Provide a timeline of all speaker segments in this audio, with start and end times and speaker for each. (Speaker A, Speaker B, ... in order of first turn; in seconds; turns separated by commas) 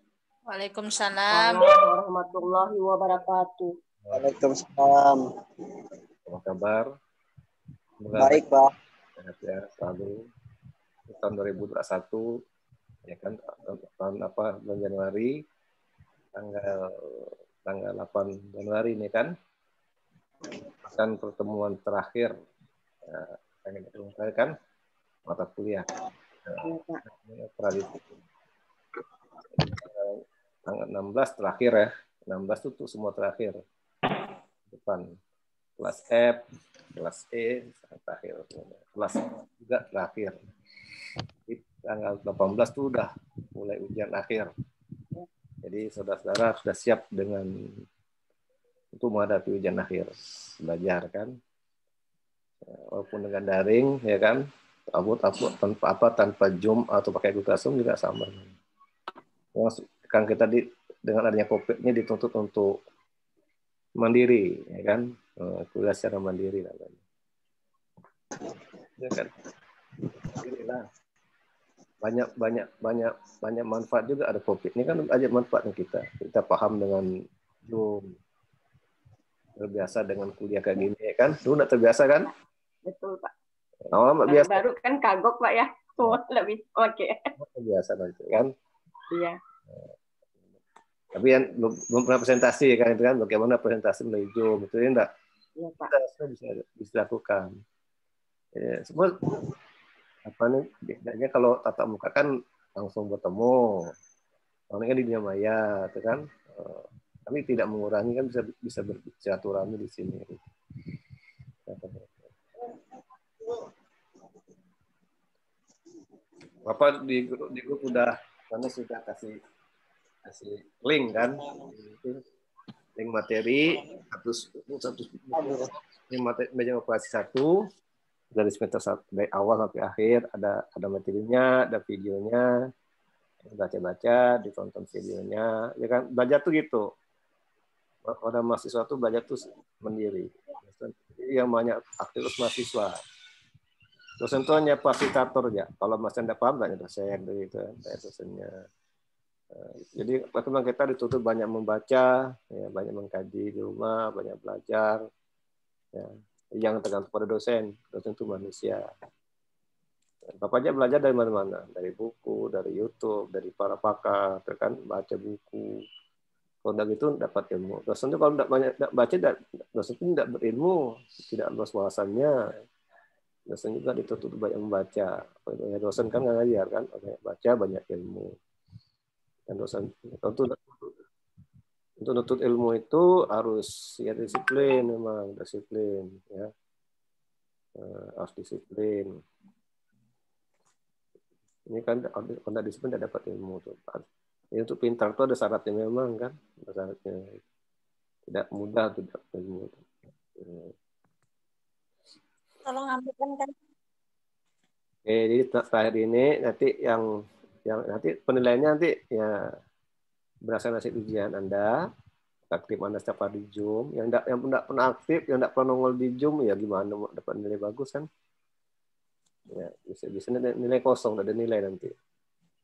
Speaker A: 0.5-1.8, Speaker B: 1.3-3.7, Speaker C: 4.1-5.2, Speaker D: 6.3-6.9, Speaker D: 8.0-8.4, Speaker C: 8.2-8.7, Speaker D: 9.2-10.2, Speaker D: 11.1-12.2, Speaker D: 13.1-15.3, Speaker D: 16.4-19.3, Speaker D: 20.8-22.3, Speaker D: 23.1-24.5, Speaker D: 25.3-25.9, Speaker D: 26.5-28.0, Speaker B: 26.6-27.0, Speaker D: 29.6-33.6, Speaker D: 34.7-35.0, Speaker D: 35.8-36.4, Speaker D: 37.0-40.3, Speaker D: 41.5-44.5, Speaker D: 45.6-47.5, Speaker D: 48.9-51.3, Speaker D: 52.7-54.4, Speaker D: 54.9-58.5, Speaker D: 59.5-62.8, Speaker D: 64.0-67.0, Speaker D: 69.0-69.3, Speaker D: 70.3-70.8, Speaker D: 72.0-77.1, Speaker D: 77.7-78.1, Speaker D: 79.6-82.3, Speaker B: 82.9-83.3, Speaker D: 83.9-84.7, Speaker B: 84.3-87.2, Speaker D: 87.4-88.5, Speaker B: 89.1-89.4, Speaker D: 91.1-95.1, Speaker B: 95.6-95.9, Speaker D: 95.9-97.5, Speaker D: 98.5-99.3, Speaker D: 100.2-103.7, Speaker D: 104.7-110.4, Speaker D: 111.7-112.1, Speaker D: 116.7-119.4, Speaker D: 120.2-122.2, Speaker D: 123.0-125.6, Speaker C: 125.3-125.7, Speaker D: 126.1-127.5, Speaker D: 128.3-132.5, Speaker D: 133.4-136.8, Speaker D: 138.1-142.9, Speaker D: 144.2-148.5, Speaker D: 149.5-155.0, Speaker D: 155.9-158.8, Speaker D: 160.4-165.7, Speaker D: 166.6-172.3, Speaker D: 173.5-178.3, Speaker D: 179.5-180.9, Speaker D: 182.0-186.5, Speaker D: 187.8-189.1, Speaker D: 191.7-194.0, Speaker D: 194.6-197.4, Speaker D: 198.3-199.8, Speaker D: 200.4-200.7, Speaker A: 202.6-203.5, Speaker D: 205.1-207.0, Speaker D: 207.7-209.4, Speaker D: 210.4-211.7, Speaker D: 212.5-218.1, Speaker D: 219.5-221.9